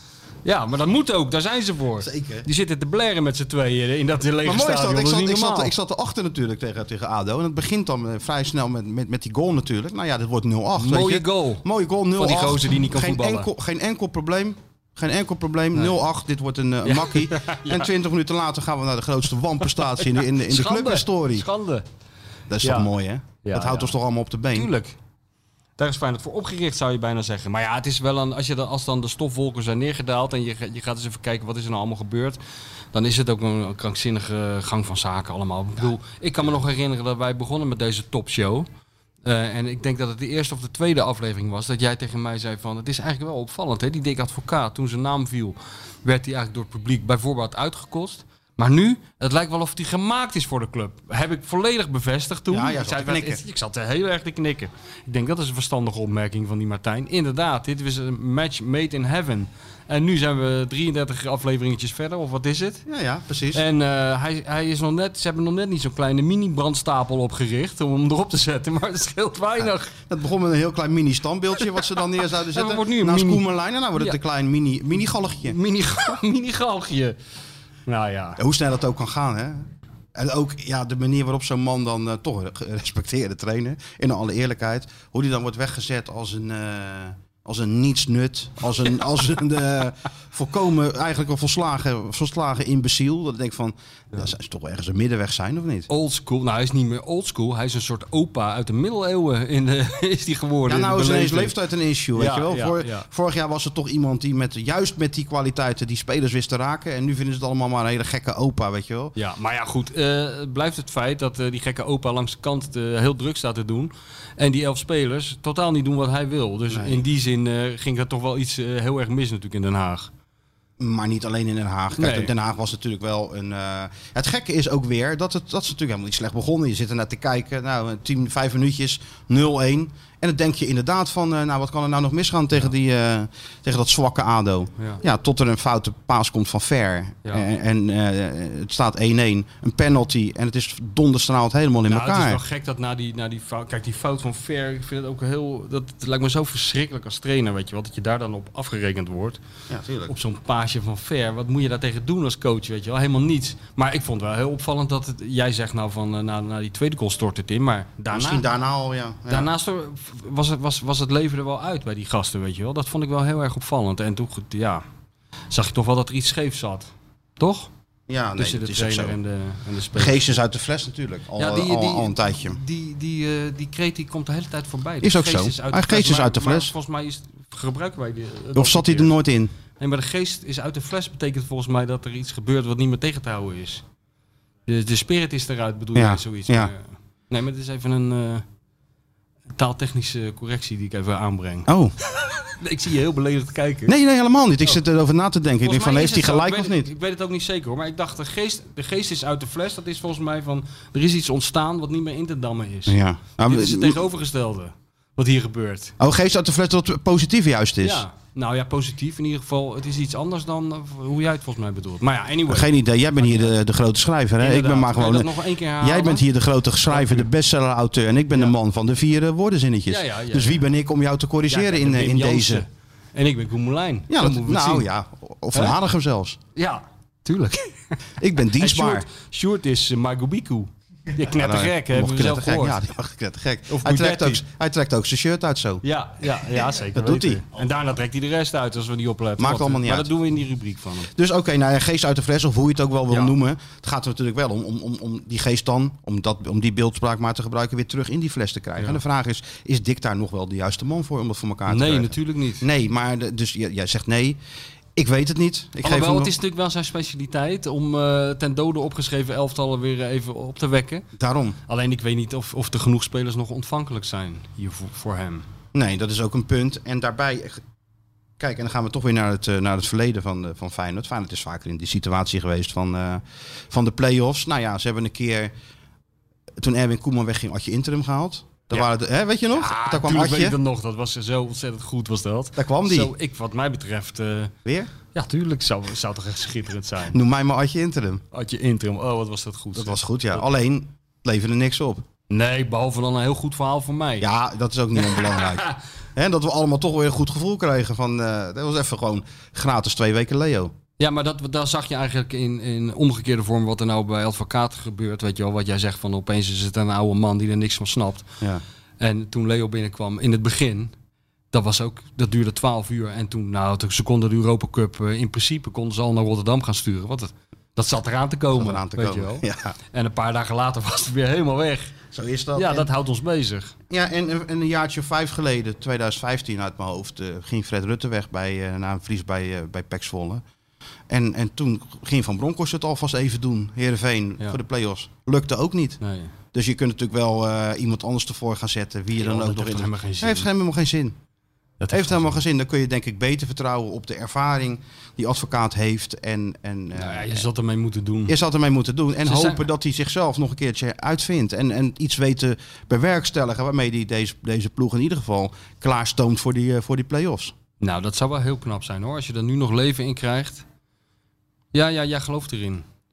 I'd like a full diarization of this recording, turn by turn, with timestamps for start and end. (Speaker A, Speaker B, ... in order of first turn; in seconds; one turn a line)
Speaker A: 0.4-5.7
Speaker B: 2.0-2.5
Speaker B: 4.4-21.5
Speaker A: 10.8-11.6
Speaker A: 12.2-13.5
Speaker A: 16.8-17.9
Speaker A: 20.0-21.8
Speaker B: 22.5-24.7
Speaker A: 22.6-22.9
Speaker A: 23.4-23.9
Speaker A: 24.5-24.9
Speaker A: 25.8-32.4
Speaker A: 32.9-38.7
Speaker A: 39.2-62.8
Speaker B: 52.5-53.4
Speaker B: 62.9-63.6
Speaker A: 63.5-69.9
Speaker B: 69.6-75.6
Speaker A: 72.5-73.4
Speaker A: 75.5-77.2
Speaker A: 77.9-78.4
Speaker B: 78.4-95.9
Speaker A: 95.9-101.5
Speaker B: 100.7-109.1
Speaker A: 102.1-103.1
Speaker A: 109.2-120.1
Speaker B: 116.7-117.0
Speaker B: 120.8-142.4
Speaker A: 122.0-122.3
Speaker A: 141.9-149.4
Speaker B: 149.7-150.1
Speaker A: 150.1-158.4
Speaker B: 158.1-159.5
Speaker A: 159.3-164.8
Speaker A: 165.5-167.7
Speaker B: 168.1-169.2
Speaker A: 168.4-170.4
Speaker B: 169.9-172.6
Speaker A: 171.4-179.1
Speaker B: 175.0-176.7
Speaker B: 178.5-179.5
Speaker A: 179.8-183.8
Speaker A: 184.7-188.4
Speaker B: 185.9-186.7
Speaker A: 189.5-191.7
Speaker B: 191.7-191.9
Speaker A: 192.6-193.9
Speaker B: 193.8-196.9
Speaker A: 195.6-205.9
Speaker B: 202.9-204.0
Speaker B: 206.0-208.0
Speaker A: 207.8-213.6
Speaker B: 212.5-222.6
Speaker A: 214.4-216.3
Speaker A: 216.8-217.3
Speaker A: 219.9-220.7
Speaker A: 221.5-224.9
Speaker B: 224.1-226.4
Speaker A: 226.6-228.0
Speaker B: 228.2-229.1
Speaker A: 228.5-232.8
Speaker B: 231.2-235.8
Speaker A: 233.7-234.4
Speaker A: 235.8-241.1
Speaker B: 236.4-237.4
Speaker B: 239.4-240.1
Speaker B: 241.0-254.4
Speaker A: 251.7-252.7
Speaker B: 254.9-256.3
Speaker A: 255.8-261.1
Speaker B: 261.1-261.6
Speaker A: 261.7-265.4
Speaker B: 265.7-267.6
Speaker B: 268.4-275.5
Speaker B: 276.6-280.6
Speaker A: 279.5-284.5
Speaker B: 282.6-283.1
Speaker B: 284.6-284.9
Speaker A: 285.1-287.2
Speaker B: 287.1-288.2
Speaker A: 288.3-290.4
Speaker B: 289.7-292.0
Speaker A: 292.3-294.3
Speaker B: 294.2-300.7
Speaker A: 295.0-295.8
Speaker A: 301.0-308.3
Speaker A: 309.0-310.9
Speaker A: 311.5-321.9
Speaker B: 318.5-319.7
Speaker B: 322.1-322.9
Speaker A: 322.6-323.7
Speaker B: 323.9-330.4
Speaker B: 331.1-336.0
Speaker A: 336.0-336.3
Speaker B: 336.5-341.2
Speaker A: 339.2-340.5
Speaker A: 341.8-342.4
Speaker B: 341.9-347.4
Speaker A: 346.9-348.4
Speaker B: 348.3-357.5
Speaker A: 349.2-349.6
Speaker A: 357.8-360.6
Speaker A: 361.7-362.8